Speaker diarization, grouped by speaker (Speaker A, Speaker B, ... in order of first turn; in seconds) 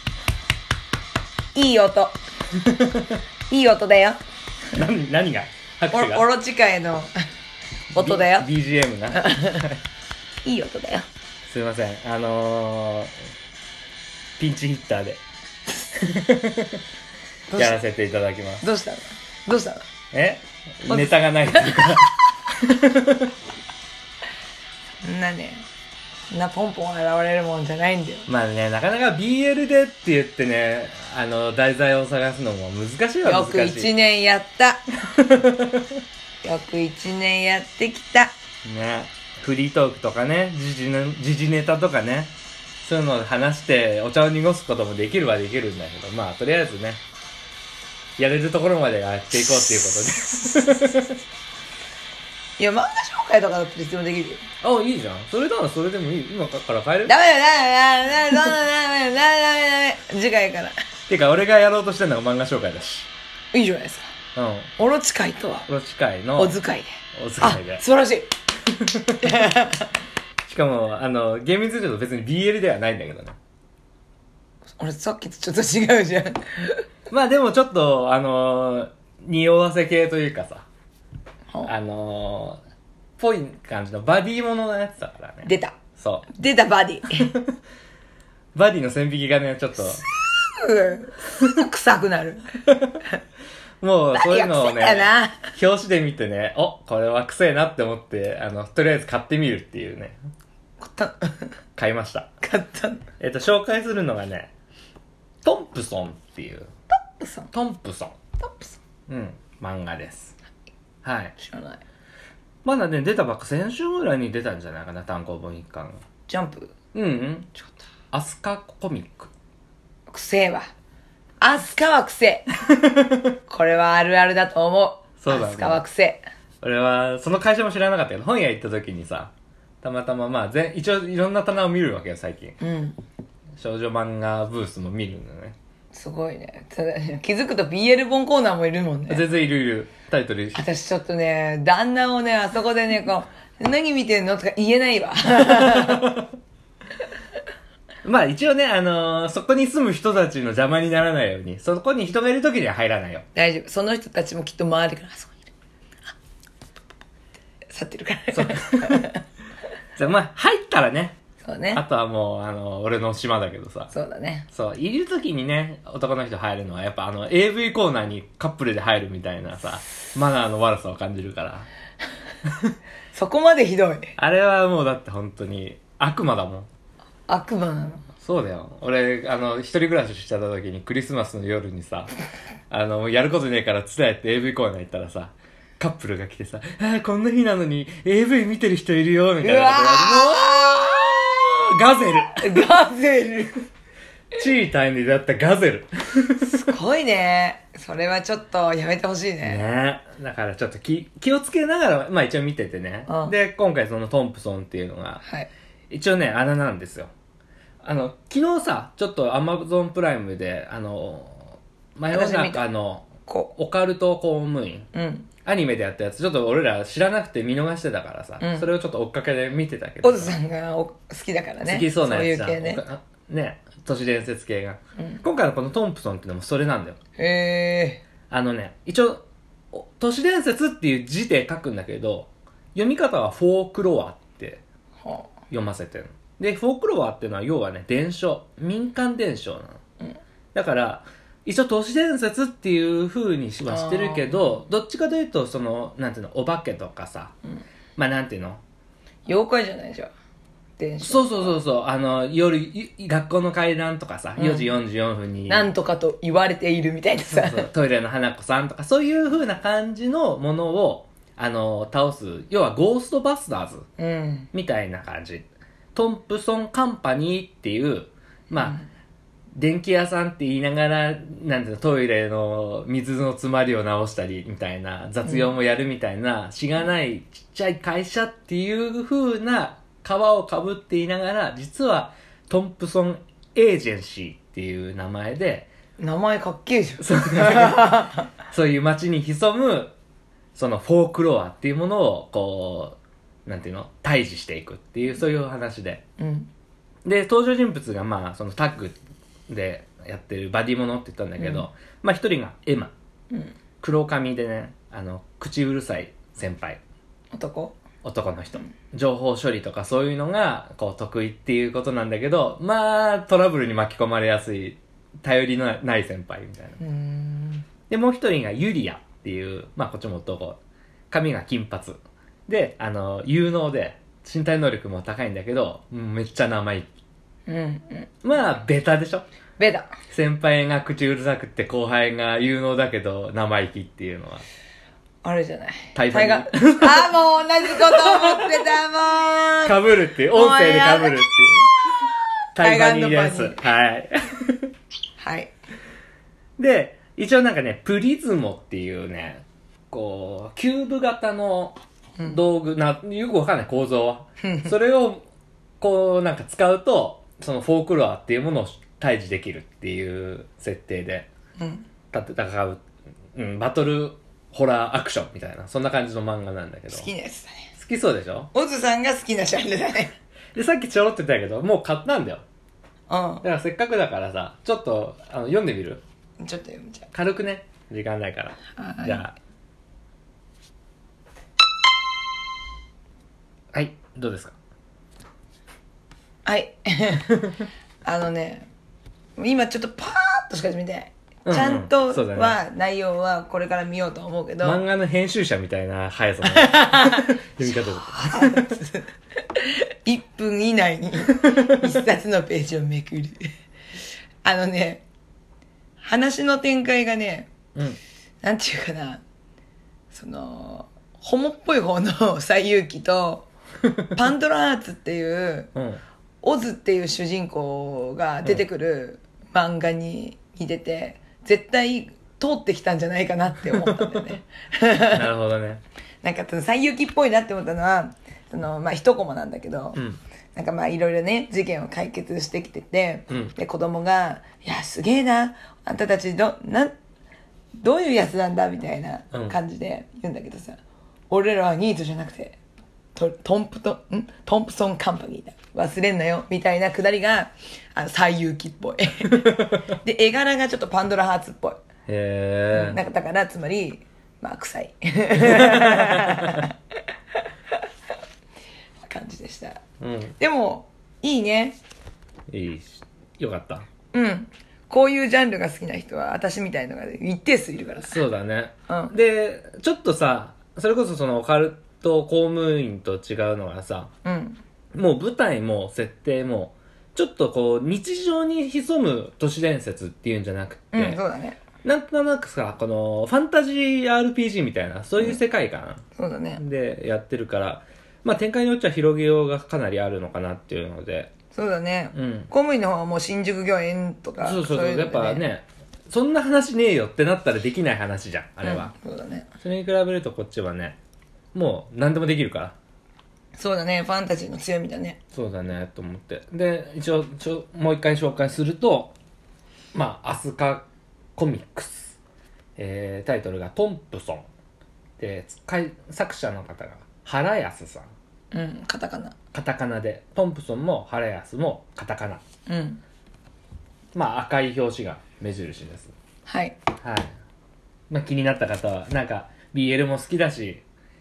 Speaker A: 1.5-2.2, 3.5-4.2, 5.9-7.1, 7.9-8.5, 9.1-9.7, 10.4-11.1, 17.5-17.8, 18.6-19.9, 20.9-21.8, 25.0-25.6, 26.3-28.3, 33.2-34.8, 36.4-38.3, 52.6-54.4, 57.1-60.7, 63.5-64.1, 64.8-65.7, 66.4-68.3, 69.2-69.9, 74.8-76.8, 85.4-85.8, 86.3-87.3, 90.0-92.5, 94.1-95.5, 100.8-101.5, 102.4-103.0, 106.9-107.5, 108.4-108.8, 111.4-111.8, 116.3-116.7, 120.1-120.7, 121.4-122.5, 123.5-126.2, 132.6-133.0, 135.9-139.2, 140.5-146.2, 153.3-155.5, 157.7-159.2, 161.4-161.8, 163.9-164.4, 173.1-174.1, 177.3-178.1, 189.4-191.5, 192.3-193.6, 196.4-199.6, 203.1-203.3, 205.2-205.5, 212.1-212.7, 213.2-213.5, 214.9-215.3, 218.4-218.7, 220.0-222.8, 225.0-225.2, 227.2-228.0, 235.0-235.3, 243.7-244.4, 249.3-250.1, 250.8-251.6, 254.4-254.7, 255.5-257.7, 264.0-264.5, 268.6-268.8, 286.0-288.3, 296.2-296.5, 301.4-301.6, 303.3-303.6, 307.3-307.8, 316.8-317.6, 327.5-328.1, 329.6-329.9, 335.2-339.7, 340.3-341.2, 342.6-343.6, 345.2-345.5, 354.4-354.7, 361.6-361.9, 366.9-367.7, 368.5-370.1, 373.1-373.4, 376.4-377.1, 378.8-379.2, 386.4-387.5, 388.0-388.7, 389.4-394.8, 396.5-403.5, 404.4-405.0, 406.0-407.5, 408.4-409.2, 410.1-413.5, 414.1-415.7, 416.4-425.3, 426.2-430.0, 430.5-436.9, 437.8-440.8, 441.3-442.6, 443.1-451.8, 452.7-456.7, 459.0-459.8, 460.4-461.8, 464.1-468.2, 474.2-474.6, 480.9-481.6, 486.1-486.6, 491.5-495.4, 498.6-499.5, 503.6-505.2, 518.5-519.3, 522.7-523.0, 526.5-526.8
Speaker B: 2.6-3.2, 4.7-6.2, 7.9-9.7, 11.4-13.1, 14.4-15.2, 15.9-16.8, 17.5-18.6, 20.1-23.3, 28.3-33.9, 35.1-36.0, 38.6-47.0, 48.2-51.1, 54.6-57.1, 61.1-63.1, 64.3-64.7, 65.7-66.6, 67.1-67.8, 68.7-69.4, 70.5-73.4, 77.1-80.7, 81.6-82.6, 83.2-86.3, 88.5-90.0, 93.8-100.2, 101.8-102.3, 103.2-104.5, 105.4-106.7, 107.5-108.1, 109.1-110.3, 111.0-111.3, 112.6-116.0, 116.9-117.5, 118.1-119.3, 122.8-123.2, 125.2-125.8, 126.6-129.3, 129.8-132.6, 133.6-135.6, 139.1-140.6, 145.3-146.2, 148.0-153.2, 158.3-159.1, 159.9-161.2, 161.7-163.9, 164.5-171.7, 172.5-172.7, 174.2-176.7, 178.2-182.1, 182.7-192.6, 194.3-196.5, 199.4-205.2, 205.9-207.1, 207.8-214.9, 215.4-220.3, 221.6-227.0, 228.3-234.6, 235.5-239.8, 240.5-247.3, 248.0-248.6, 251.0-255.7, 257.3-263.9, 264.5-268.8, 269.5-285.7, 287.0-289.9, 290.5-296.0, 297.0-299.0, 299.5-302.9, 303.8-306.8, 308.0-316.8, 317.9-320.6, 321.1-326.9, 328.2-329.2, 330.1-334.4, 335.9-337.1, 337.8-338.7, 339.6-341.7, 342.6-344.7, 346.6-355.2, 355.8-361.3, 362.1-362.8, 363.3-367.1, 367.8-368.5, 370.5-372.4, 373.4-376.0, 377.1-379.3, 383.7-384.6, 391.4-392.6, 394.6-398.7, 415.7-416.0, 423.8-424.2, 425.1-425.8, 439.3-439.6, 452.1-453.0, 455.4-456.6, 460.0-460.4, 462.5-463.9, 468.0-474.1, 474.9-481.2, 481.8-486.0, 486.6-491.3, 492.1-492.5, 494.4-498.9, 499.6-501.0, 501.5-502.7, 505.3-509.1, 509.9-512.1, 512.8-514.4, 515.2-518.1, 519.5-522.4, 524.1-526.1, 527.0-527.3, 528.1-530.8